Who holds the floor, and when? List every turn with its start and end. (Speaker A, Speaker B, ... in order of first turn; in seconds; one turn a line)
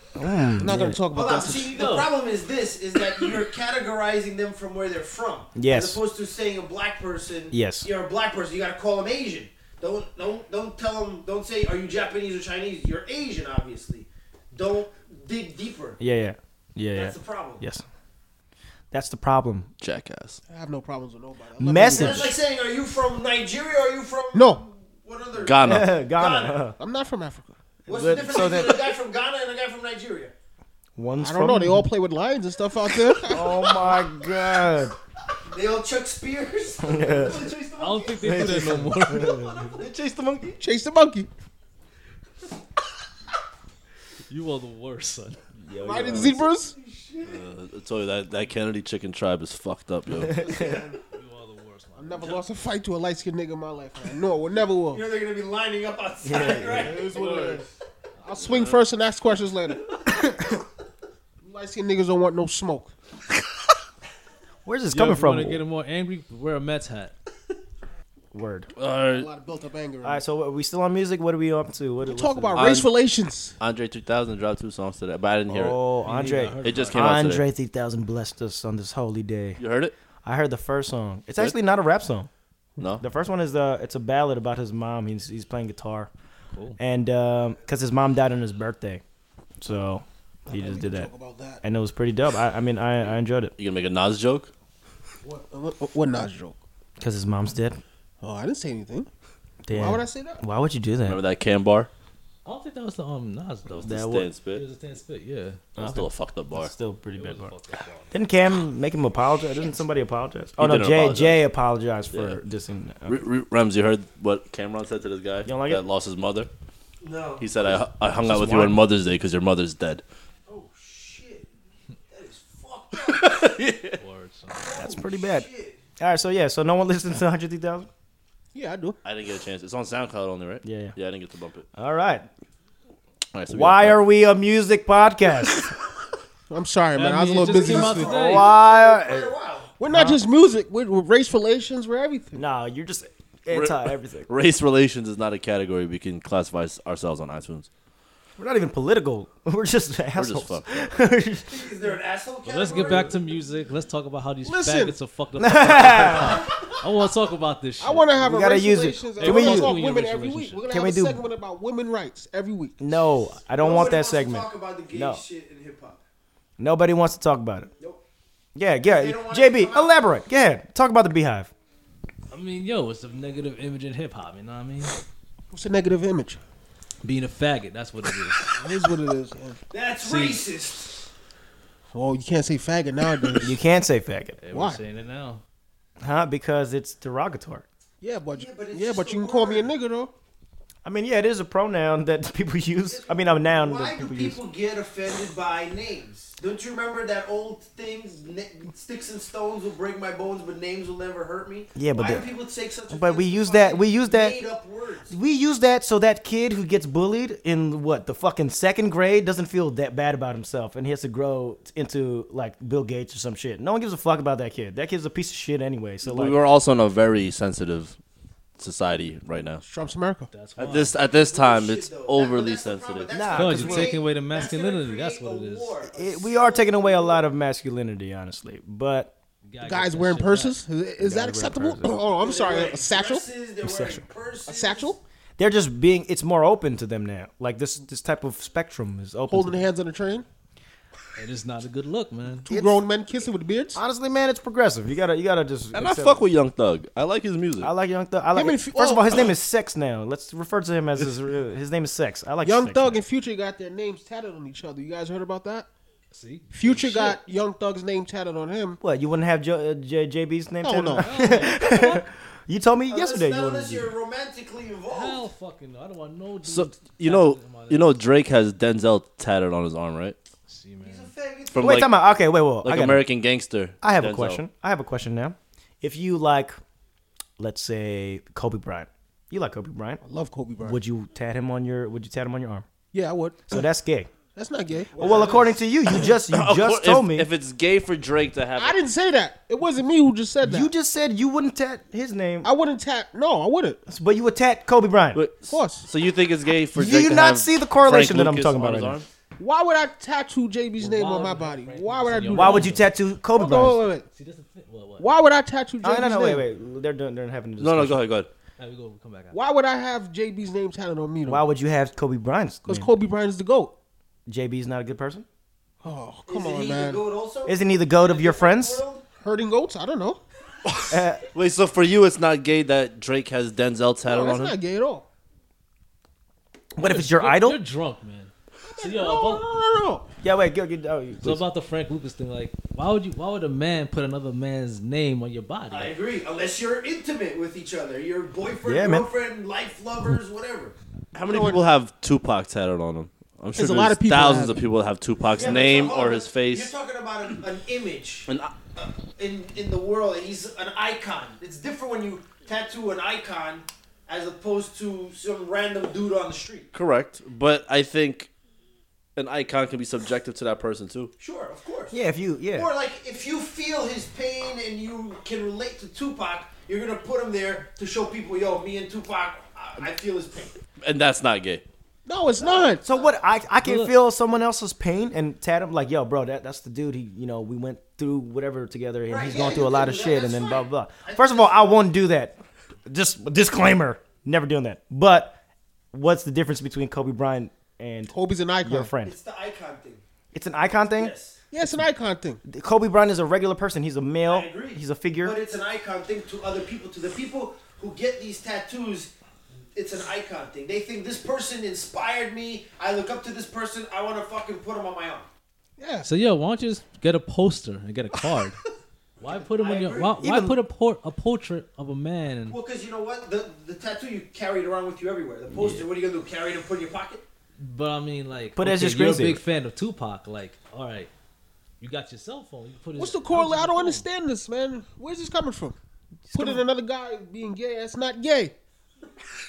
Speaker A: 0.1-1.0
Speaker B: 0.6-1.9
Speaker C: 1.1-16.0
Speaker D: 1.8-2.1
Speaker A: 5.5-6.0
Speaker A: 7.5-7.9
Speaker A: 16.0-17.8
Speaker C: 16.9-17.6
Speaker A: 18.9-19.7
Speaker E: 19.8-20.4
Speaker B: 20.5-22.4
Speaker A: 21.6-22.4
Speaker C: 21.9-26.7
Speaker B: 24.3-24.6
Speaker E: 25.4-26.0
Speaker A: 25.6-26.8
Speaker B: 26.8-27.5
Speaker C: 27.9-30.3
Speaker A: 27.9-29.0
Speaker A: 31.0-31.9
Speaker B: 31.2-33.5
Speaker A: 33.3-35.0
Speaker C: 35.5-38.5
Speaker A: 36.8-37.5
Speaker D: 37.8-39.5
Speaker A: 38.2-40.6
Speaker C: 39.5-39.9
Speaker B: 40.6-41.3
Speaker D: 44.3-45.4
Speaker A: 45.6-46.5
Speaker B: 45.8-46.7
Speaker C: 46.7-47.4
Speaker E: 47.2-50.4
Speaker A: 50.2-50.6
Speaker B: 50.4-51.0
Speaker C: 50.6-50.9
Speaker D: 51.1-52.4
Speaker B: 52.0-55.1
Speaker C: 54.9-57.6
Speaker A: 56.2-57.0
Speaker B: 56.7-57.7
Speaker B: 58.2-60.5
Speaker E: 58.5-58.8
Speaker B: 61.4-62.9
Speaker A: 64.7-65.6
Speaker D: 64.9-67.1
Speaker A: 68.3-68.7
Speaker E: 68.8-69.3
Speaker B: 69.1-70.2
Speaker A: 70.0-72.7
Speaker B: 72.0-73.5
Speaker E: 72.5-72.9
Speaker E: 73.6-75.8
Speaker A: 75.5-79.6
Speaker D: 76.0-77.0
Speaker E: 76.6-77.5
Speaker E: 79.6-79.9
Speaker A: 80.2-82.3
Speaker E: 82.8-83.0
Speaker A: 83.0-86.1
Speaker A: 86.8-89.0
Speaker A: 89.6-91.1
Speaker B: 90.5-91.6
Speaker A: 91.6-93.5
Speaker E: 93.6-94.5
Speaker B: 95.2-96.6
Speaker A: 97.0-97.8
Speaker B: 98.2-99.1
Speaker A: 99.7-101.2
Speaker B: 99.7-100.4
Speaker E: 101.0-101.9
Speaker D: 102.5-103.9
Speaker E: 103.7-104.6
Speaker A: 103.8-104.3
Speaker D: 104.5-105.6
Speaker E: 105.8-106.7
Speaker A: 105.8-107.5
Speaker D: 107.2-108.1
Speaker A: 108.1-113.2
Speaker E: 110.6-111.4
Speaker E: 112.1-112.4
Speaker E: 113.1-116.5
Speaker A: 115.5-115.8
Speaker C: 117.0-117.8
Speaker E: 117.4-120.0
Speaker A: 118.2-118.8
Speaker C: 120.5-121.5
Speaker C: 122.1-123.5
Speaker E: 123.0-124.0
Speaker D: 124.0-124.7
Speaker C: 124.6-125.8
Speaker A: 124.7-125.5
Speaker A: 126.0-127.9
Speaker B: 128.5-129.0
Speaker E: 129.0-131.7
Speaker A: 130.6-131.0
Speaker A: 131.8-132.3
Speaker E: 133.3-134.0
Speaker A: 133.5-135.7
Speaker B: 136.5-138.2
Speaker D: 136.9-138.5
Speaker C: 137.5-139.7
Speaker A: 137.7-139.4
Speaker B: 139.8-142.4
Speaker A: 139.9-140.2
Speaker A: 142.3-144.3
Speaker E: 143.5-147.7
Speaker A: 148.4-151.7
Speaker E: 150.2-150.7
Speaker C: 151.5-153.2
Speaker D: 152.4-158.2
Speaker B: 154.4-155.0
Speaker A: 155.4-156.5
Speaker C: 156.1-156.8
Speaker B: 157.8-162.8
Speaker A: 158.2-159.8
Speaker D: 159.2-160.6
Speaker A: 160.7-161.2
Speaker A: 162.8-165.2
Speaker C: 163.4-166.0
Speaker A: 166.6-167.7
Speaker A: 168.6-171.5
Speaker C: 168.8-170.0
Speaker D: 172.3-174.9
Speaker B: 175.5-176.4
Speaker D: 177.0-178.6
Speaker B: 178.5-179.6
Speaker C: 179.7-181.0
Speaker D: 180.0-180.5
Speaker B: 181.9-183.6
Speaker A: 183.4-184.4
Speaker D: 184.4-185.4
Speaker B: 184.5-184.8
Speaker A: 186.0-187.7
Speaker B: 188.0-190.1
Speaker C: 188.3-189.7
Speaker A: 190.8-194.4
Speaker C: 192.9-205.1
Speaker A: 201.8-202.3
Speaker A: 202.9-204.4
Speaker A: 205.1-216.4
Speaker E: 216.0-218.0
Speaker E: 218.6-219.6
Speaker B: 219.6-220.3
Speaker D: 220.3-221.0
Speaker E: 220.6-223.1
Speaker C: 220.7-227.2
Speaker A: 223.1-224.0
Speaker D: 223.3-225.8
Speaker A: 225.8-229.1
Speaker D: 229.4-230.6
Speaker B: 229.6-233.3
Speaker A: 231.0-232.0
Speaker C: 232.2-234.9
Speaker A: 233.6-234.0
Speaker B: 234.4-235.0
Speaker A: 235.4-239.7
Speaker B: 239.3-240.3
Speaker D: 241.2-242.5
Speaker B: 242.5-243.8
Speaker A: 242.5-242.8
Speaker A: 243.8-246.2
Speaker E: 245.7-247.7
Speaker A: 247.6-253.0
Speaker B: 248.3-249.3
Speaker B: 252.4-255.7
Speaker D: 256.1-257.2
Speaker B: 256.5-258.8
Speaker A: 258.8-263.9
Speaker B: 260.6-261.3
Speaker D: 261.0-262.1
Speaker C: 262.9-265.2
Speaker D: 264.9-268.0
Speaker E: 266.4-270.2
Speaker D: 270.5-271.1
Speaker C: 270.8-271.9
Speaker E: 271.5-271.9
Speaker A: 271.6-273.1
Speaker E: 272.6-274.4
Speaker A: 273.8-276.6
Speaker A: 277.4-280.0
Speaker B: 280.0-280.8
Speaker A: 280.6-282.7
Speaker B: 282.9-283.6
Speaker A: 283.5-284.1
Speaker B: 284.3-285.4
Speaker C: 284.9-285.5
Speaker A: 285.0-287.3
Speaker D: 285.0-285.4
Speaker E: 286.0-288.8
Speaker B: 288.6-290.7
Speaker A: 290.4-292.5
Speaker B: 292.4-293.8
Speaker A: 293.9-295.2
Speaker E: 295.1-299.1
Speaker B: 295.5-295.9
Speaker A: 296.8-299.0
Speaker B: 299.4-302.8
Speaker D: 300.8-302.9
Speaker A: 302.3-303.8
Speaker B: 303.3-304.1
Speaker D: 304.1-305.1
Speaker B: 305.0-306.5
Speaker A: 305.8-308.1
Speaker E: 307.6-308.3
Speaker D: 308.6-309.4
Speaker B: 309.3-311.5
Speaker A: 311.2-312.9
Speaker B: 312.7-313.8
Speaker A: 314.3-315.3
Speaker B: 315.8-317.1
Speaker C: 316.3-319.1
Speaker A: 317.4-318.8
Speaker B: 319.2-320.2
Speaker A: 320.9-321.2
Speaker E: 321.3-324.6
Speaker B: 324.1-325.1
Speaker A: 326.8-327.6
Speaker D: 326.8-329.4
Speaker B: 328.7-330.1
Speaker A: 330.2-331.5
Speaker D: 331.2-336.0
Speaker C: 335.7-340.7
Speaker A: 338.6-339.1
Speaker E: 341.1-346.7
Speaker B: 341.2-341.6
Speaker B: 343.5-344.6
Speaker C: 345.3-356.7
Speaker E: 348.3-348.6
Speaker E: 356.7-358.3
Speaker E: 359.2-361.1
Speaker C: 361.2-362.0
Speaker A: 361.9-362.7
Speaker C: 362.5-370.6
Speaker E: 370.8-371.6
Speaker B: 372.1-372.9
Speaker C: 372.4-373.1
Speaker A: 372.8-385.4
Speaker D: 373.6-373.9
Speaker C: 379.1-381.8
Speaker A: 385.9-389.2
Speaker B: 388.1-388.9
Speaker C: 389.0-390.0
Speaker A: 390.3-391.1
Speaker C: 390.9-391.4
Speaker B: 391.5-392.4
Speaker A: 392.4-395.4
Speaker C: 394.2-399.1
Speaker C: 399.7-405.3
Speaker B: 405.8-406.1
Speaker D: 406.0-408.6
Speaker C: 409.2-410.2
Speaker D: 409.2-412.6
Speaker A: 410.2-410.6
Speaker C: 412.5-417.2
Speaker D: 415.5-415.9
Speaker D: 417.6-421.1
Speaker A: 418.6-419.4
Speaker D: 421.8-424.1
Speaker B: 423.0-425.8
Speaker A: 426.3-426.6
Speaker B: 426.3-428.5